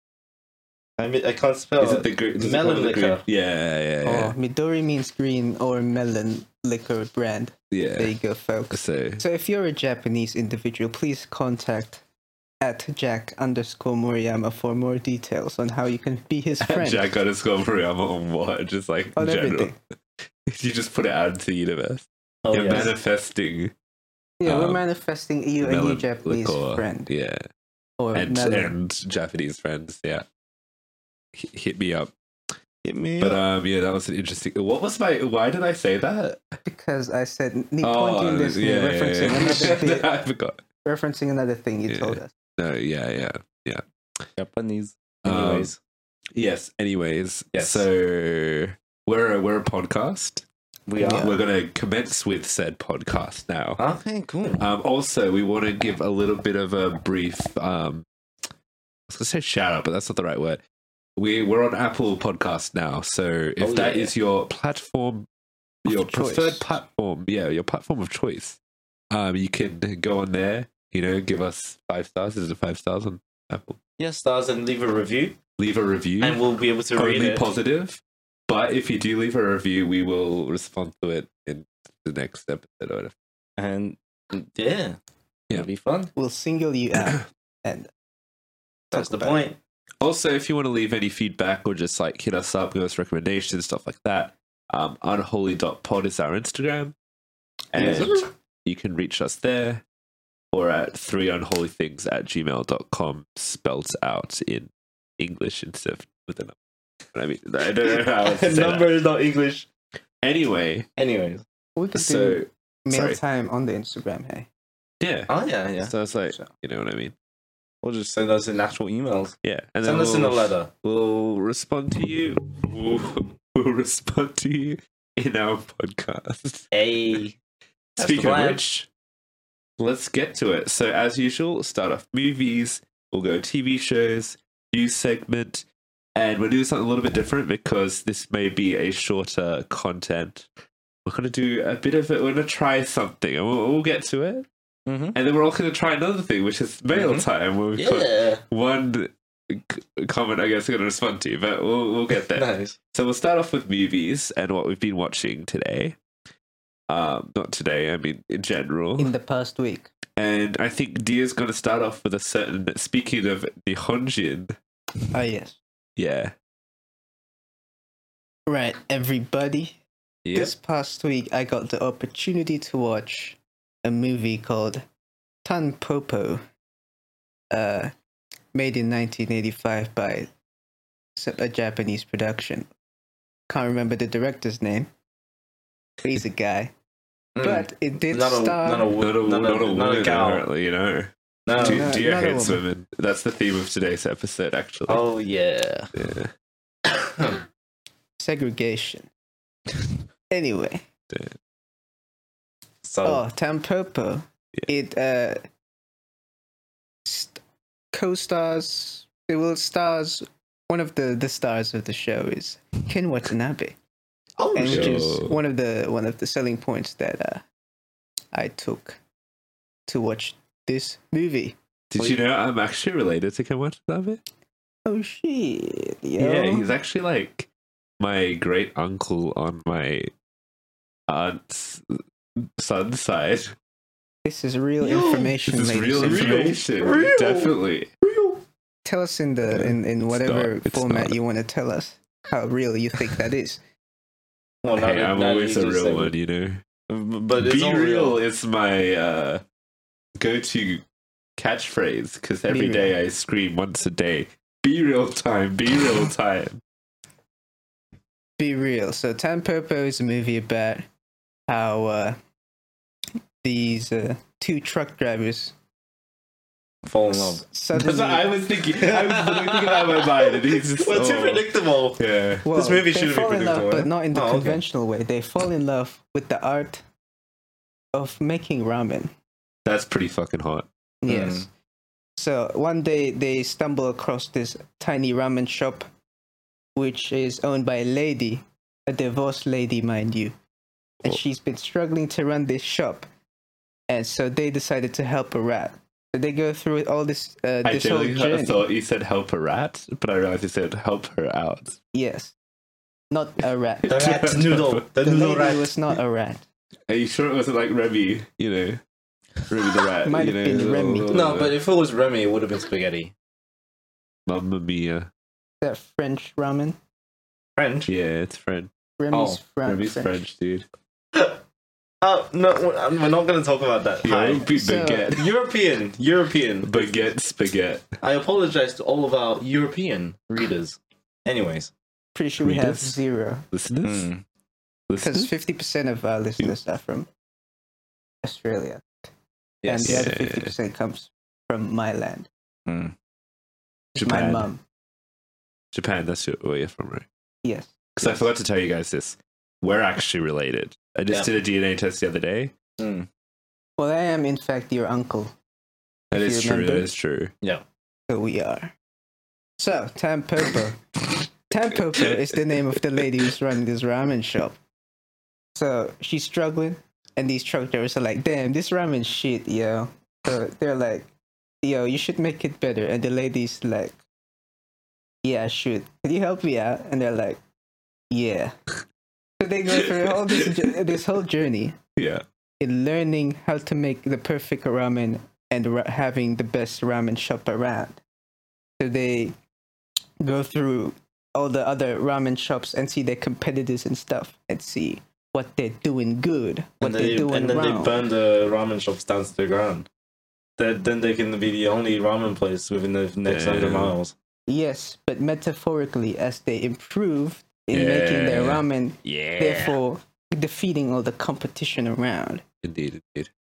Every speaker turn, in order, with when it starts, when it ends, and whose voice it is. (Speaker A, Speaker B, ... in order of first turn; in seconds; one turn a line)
Speaker A: 1.0-3.2
Speaker B: 1.8-4.3
Speaker C: 4.0-12.0
Speaker B: 7.7-8.1
Speaker B: 8.7-9.2
Speaker C: 12.6-17.1
Speaker B: 16.6-19.8
Speaker C: 19.2-19.8
Speaker B: 20.4-23.7
Speaker A: 22.4-22.9
Speaker C: 24.4-27.1
Speaker B: 24.5-24.8
Speaker B: 25.6-27.4
Speaker C: 28.0-28.8
Speaker B: 28.1-30.2
Speaker B: 31.3-32.1
Speaker A: 32.8-33.4
Speaker B: 33.2-36.6
Speaker C: 36.6-40.1
Speaker B: 37.8-40.6
Speaker C: 40.8-42.3
Speaker B: 41.9-43.8
Speaker A: 44.4-45.8
Speaker B: 45.2-45.7
Speaker B: 46.3-50.5
Speaker A: 47.5-47.9
Speaker A: 50.9-51.3
Speaker C: 51.0-51.4
Speaker B: 51.0-53.8
Speaker A: 53.8-54.6
Speaker B: 54.6-58.1
Speaker B: 59.1-60.6
Speaker B: 61.2-65.3
Speaker A: 63.6-64.1
Speaker B: 65.8-68.6
Speaker C: 65.9-66.8
Speaker B: 69.1-73.8
Speaker A: 74.0-75.4
Speaker B: 75.6-76.4
Speaker A: 76.2-77.5
Speaker B: 76.9-83.1
Speaker A: 83.6-85.0
Speaker A: 85.5-86.1
Speaker C: 86.2-87.9
Speaker A: 88.9-89.6
Speaker C: 88.9-89.4
Speaker B: 90.0-97.0
Speaker B: 97.7-99.8
Speaker A: 97.8-98.2
Speaker C: 97.8-98.2
Speaker B: 100.5-106.6
Speaker B: 107.1-108.9
Speaker A: 107.8-109.7
Speaker B: 110.2-110.9
Speaker A: 111.0-111.4
Speaker C: 111.8-114.5
Speaker B: 112.0-113.2
Speaker B: 115.0-115.3
Speaker A: 115.3-115.9
Speaker B: 115.8-117.2
Speaker A: 117.8-120.7
Speaker B: 119.4-126.7
Speaker A: 126.7-127.4
Speaker B: 128.0-128.9
Speaker A: 128.0-128.6
Speaker B: 129.8-140.5
Speaker B: 141.1-144.5
Speaker A: 144.9-145.2
Speaker B: 145.1-156.0
Speaker A: 146.9-147.2
Speaker A: 147.8-148.4
Speaker A: 152.3-152.8
Speaker B: 156.9-159.1
Speaker C: 159.0-159.9
Speaker B: 160.2-164.6
Speaker C: 165.1-165.6
Speaker B: 166.0-166.3
Speaker C: 168.5-169.8
Speaker A: 170.2-170.5
Speaker C: 170.3-174.8
Speaker C: 175.4-176.4
Speaker C: 177.5-177.9
Speaker C: 178.5-180.3
Speaker C: 181.2-182.7
Speaker C: 183.5-184.9
Speaker C: 186.0-186.7
Speaker A: 187.4-190.4
Speaker C: 187.4-188.9
Speaker B: 189.0-195.0
Speaker A: 191.5-191.9
Speaker C: 191.6-192.6
Speaker A: 194.9-195.9
Speaker B: 195.9-196.3
Speaker A: 196.9-197.4
Speaker C: 198.2-199.1
Speaker C: 200.3-200.8
Speaker A: 202.8-203.2
Speaker C: 203.1-205.4
Speaker C: 207.1-207.4
Speaker C: 207.9-213.8
Speaker A: 214.4-215.1
Speaker C: 214.5-217.4
Speaker B: 214.7-215.4
Speaker C: 218.3-219.0
Speaker C: 219.9-221.6
Speaker B: 221.9-224.2
Speaker C: 224.9-226.7
Speaker B: 226.2-227.5
Speaker B: 228.0-230.1
Speaker B: 231.1-233.6
Speaker C: 234.2-236.6
Speaker A: 234.8-235.4
Speaker B: 235.4-237.9
Speaker A: 236.0-238.4
Speaker C: 238.8-243.6
Speaker B: 239.5-241.1
Speaker A: 244.6-246.1
Speaker B: 244.8-246.6
Speaker A: 246.9-248.2
Speaker B: 247.4-249.4
Speaker B: 250.2-250.8
Speaker B: 251.4-256.6
Speaker C: 252.5-252.9
Speaker C: 258.4-260.9
Speaker C: 261.5-262.2
Speaker C: 263.4-265.6
Speaker A: 266.9-267.4
Speaker C: 267.1-268.3
Speaker B: 267.7-272.5
Speaker A: 268.7-274.6
Speaker C: 272.4-276.8
Speaker C: 277.9-279.1
Speaker B: 279.7-280.7
Speaker C: 281.0-281.5
Speaker A: 281.1-281.5
Speaker C: 282.2-285.9
Speaker C: 286.8-290.4
Speaker C: 291.0-293.1
Speaker C: 293.9-298.7
Speaker B: 297.6-301.8
Speaker C: 301.9-302.4
Speaker C: 303.1-306.4
Speaker B: 303.9-304.8
Speaker A: 303.9-305.7
Speaker B: 306.9-308.8
Speaker B: 309.5-311.6
Speaker C: 310.1-311.3
Speaker A: 311.1-313.1
Speaker B: 314.3-315.1
Speaker C: 315.6-316.8
Speaker A: 317.6-317.9
Speaker B: 317.9-318.7
Speaker C: 319.0-320.1
Speaker A: 319.1-319.4
Speaker B: 319.7-320.7
Speaker A: 322.0-324.5
Speaker B: 324.0-325.3
Speaker C: 324.5-325.1
Speaker A: 325.1-327.0
Speaker B: 326.6-327.9
Speaker A: 328.0-331.7
Speaker C: 332.1-333.5
Speaker B: 332.4-333.0
Speaker B: 333.5-334.1
Speaker A: 333.8-334.2
Speaker B: 334.9-335.3
Speaker C: 335.0-337.1
Speaker C: 338.2-339.1
Speaker A: 339.6-340.1
Speaker C: 339.7-342.3
Speaker B: 339.8-340.5
Speaker A: 342.7-342.9
Speaker C: 343.9-344.6
Speaker B: 344.0-344.5
Speaker B: 345.7-347.1
Speaker C: 347.4-348.2
Speaker B: 348.0-352.5
Speaker A: 352.8-353.1
Speaker C: 353.8-355.3
Speaker C: 356.1-356.9
Speaker B: 356.1-357.3
Speaker C: 358.1-358.7
Speaker C: 359.6-360.9
Speaker C: 361.5-364.6
Speaker C: 365.6-371.1
Speaker C: 371.6-374.0
Speaker C: 375.2-377.4
Speaker C: 378.1-378.6
Speaker C: 379.4-381.8
Speaker B: 379.7-380.8
Speaker B: 382.0-382.2
Speaker C: 382.6-388.0
Speaker C: 388.8-389.4
Speaker C: 390.2-398.0
Speaker A: 396.8-399.9
Speaker A: 400.6-404.1
Speaker B: 403.3-404.0
Speaker C: 404.5-412.4
Speaker B: 407.7-408.6
Speaker A: 409.1-409.8
Speaker B: 412.6-413.3